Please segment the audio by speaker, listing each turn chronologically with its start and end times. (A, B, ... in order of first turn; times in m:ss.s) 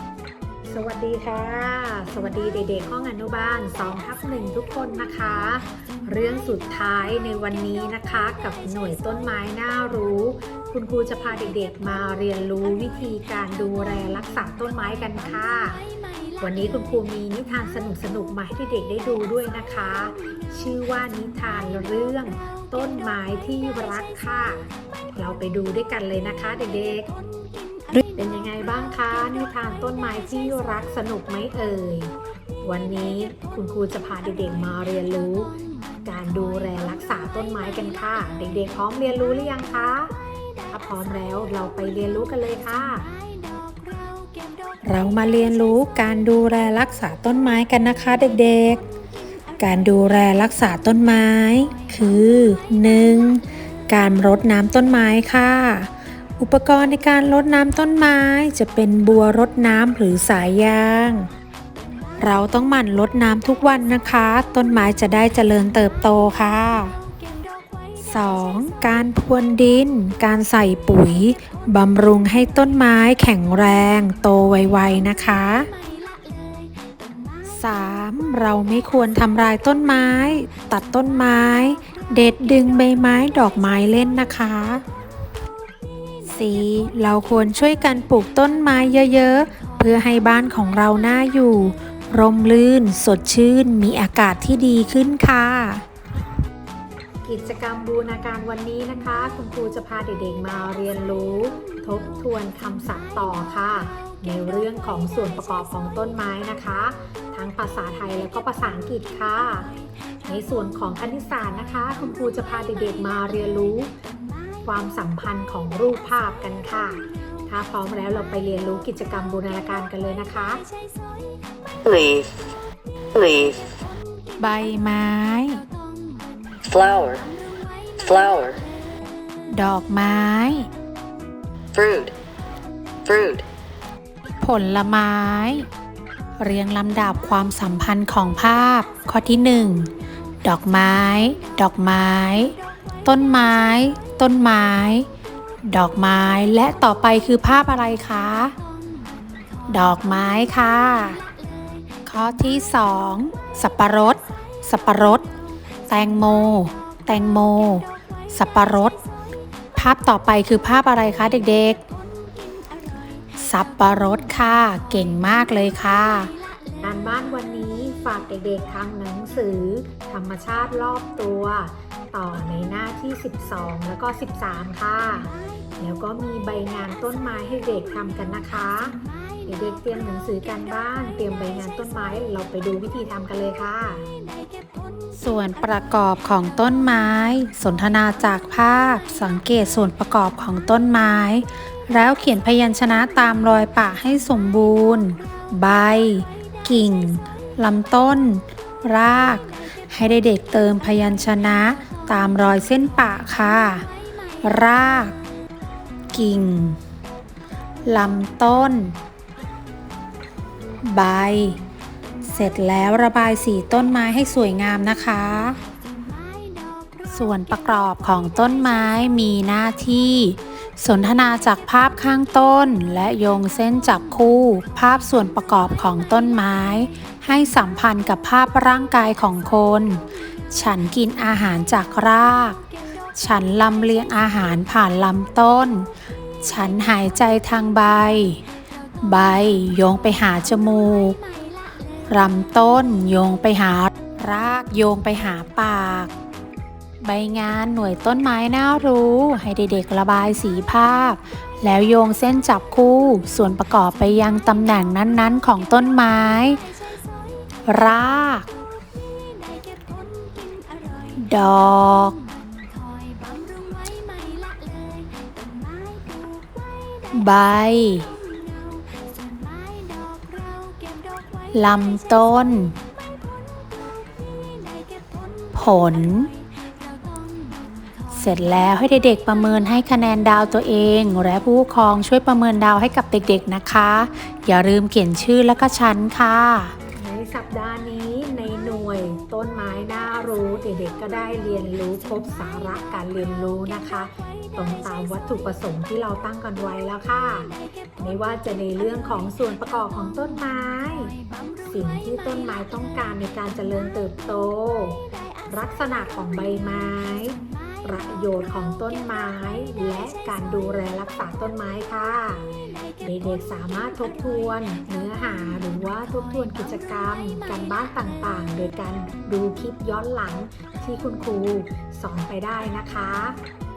0:00.7-0:15.8 A
0:16.4-0:27.1 A
0:28.1-0:35.5 A
0:36.0-0:40.2 A
0:40.7-0:43.1 A
0:44.9-0:48.8 B
0:47.2-0:48.4 A
0:49.6-0:53.4 B
0:53.9-0:55.9 B
0:54.6-0:55.0 A
0:56.4-1:01.2 B
0:56.6-0:57.0 A
1:02.2-1:07.0 B
1:08.0-1:15.7 B
1:17.5-1:24.8 B
1:26.3-1:35.8 B
1:37.2-1:49.7 A
1:50.3-1:53.9 A
1:54.6-2:00.6 A
2:01.8-2:02.3 C
2:03.2-2:03.6 C
2:04.4-2:05.6 B
2:06.6-2:07.3 C
2:08.0-2:08.6 C
2:09.5-2:10.7 B
2:11.8-2:12.1 C
2:13.1-2:13.4 C
2:14.4-2:15.7 B
2:16.4-2:19.9 B
2:20.4-2:22.5 B
2:23.0-2:25.1 B
2:25.7-2:28.6 B
2:29.7-2:31.2 B
2:32.1-2:35.2 B
2:35.9-2:39.0 B
2:39.8-2:41.8 B
2:43.4-2:46.3 B
2:46.8-3:04.0 A
3:05.2-3:23.9 B
3:24.4-3:25.2 B
3:26.1-3:26.8 B
3:27.9-3:29.0 B
3:30.9-3:31.6 B
3:32.2-3:35.6 B
3:37.1-3:52.6 B
3:53.2-3:55.9 B
3:56.4-3:58.4 B
3:59.0-4:01.2 B
4:02.1-4:06.1 B
4:07.0-4:16.6 B
4:17.7-4:18.5 B
4:21.2-4:22.2 B
4:27.1-4:28.1 B
4:31.5-4:32.8 B
4:35.5-4:36.3 B
4:38.1-4:46.8 B
4:47.0-5:12.5 A
5:13.0-5:23.4 A